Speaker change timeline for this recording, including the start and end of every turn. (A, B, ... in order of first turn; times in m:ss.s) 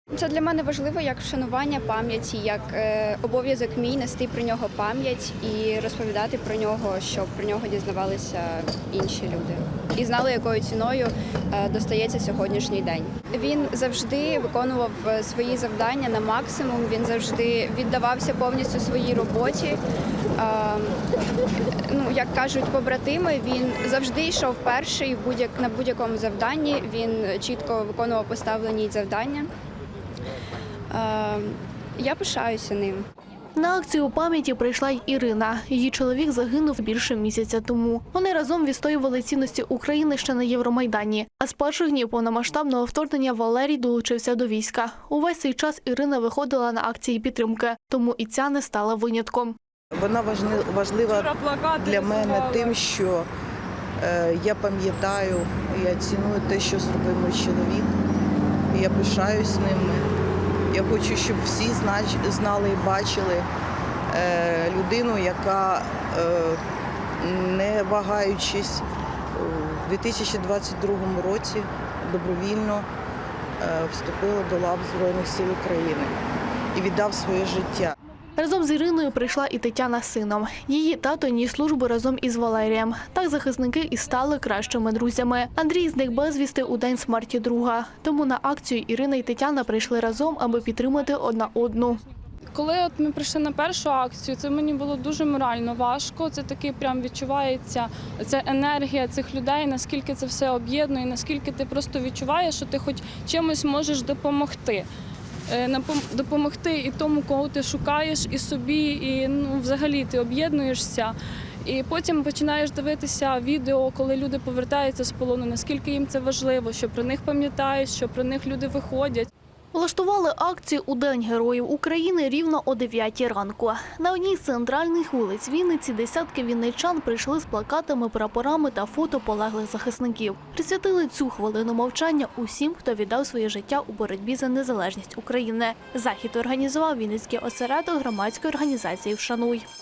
0:00.1-0:19.8 A
0:20.4-0:21.0 A
0:21.9-0:29.5 A
0:30.9-0:33.0 A
0:33.6-0:49.6 B
0:50.0-0:53.3 C
0:51.0-0:52.8 D
0:54.0-0:57.9 C
0:58.7-1:00.1 C
1:00.7-1:03.5 C
1:04.1-1:06.6 C
1:07.2-1:12.9 C
1:13.6-1:16.2 C
1:16.7-1:17.9 C
1:18.4-1:32.0 B
1:32.5-1:44.9 D
1:45.5-1:51.1 D
1:51.6-1:59.3 D
1:59.7-2:19.6 B